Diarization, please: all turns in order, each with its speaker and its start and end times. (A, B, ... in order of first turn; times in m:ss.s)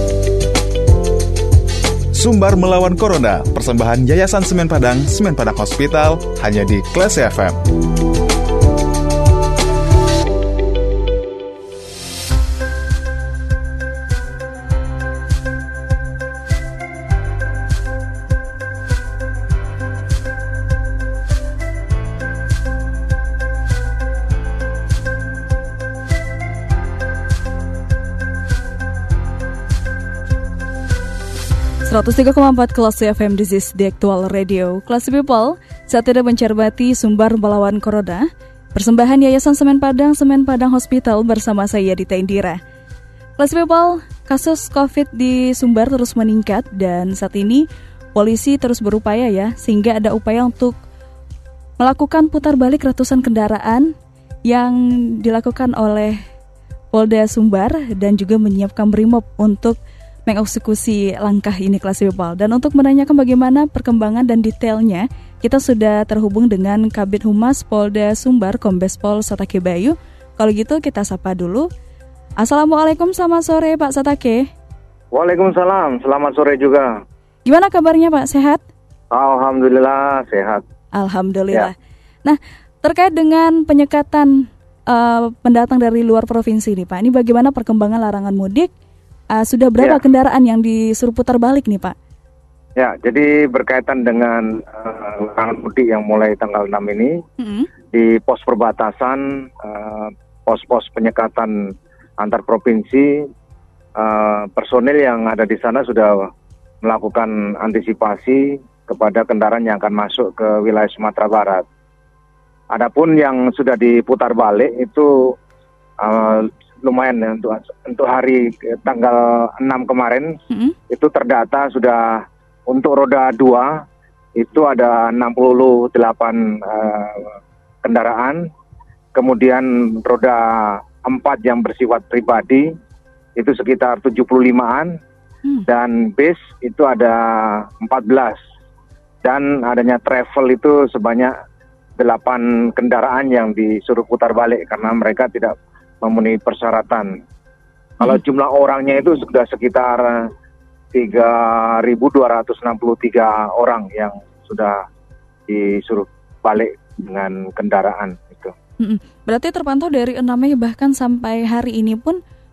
0:02.1-0:07.6 A
0:31.8-0:42.6 B
0:43.4-0:50.8 B
0:51.8-0:53.9 B
0:54.4-0:56.2 B
0:56.9-1:11.7 B
1:12.4-1:14.5 B
1:15.1-1:16.9 C
1:17.4-1:18.6 B
1:19.1-1:20.6 C
1:20.9-1:21.7 B
1:22.2-1:28.7 B
1:29.3-1:31.9 B
1:32.8-1:37.2 C
1:37.4-1:37.7 B
1:37.9-1:43.3 C
1:44.0-1:46.3 C
1:46.8-1:51.6 C
1:52.7-1:55.3 C
1:56.0-2:00.4 C
2:00.5-2:00.7 B
2:00.9-2:03.8 C
2:04.4-2:07.3 C
2:07.8-2:08.5 C
2:09.1-2:12.7 C
2:13.4-2:15.0 C
2:15.7-2:18.4 C
2:19.2-2:21.3 C
2:22.0-2:27.2 C
2:28.0-2:30.3 C
2:30.9-2:34.8 C
2:35.5-2:38.5 C
2:38.8-2:42.2 B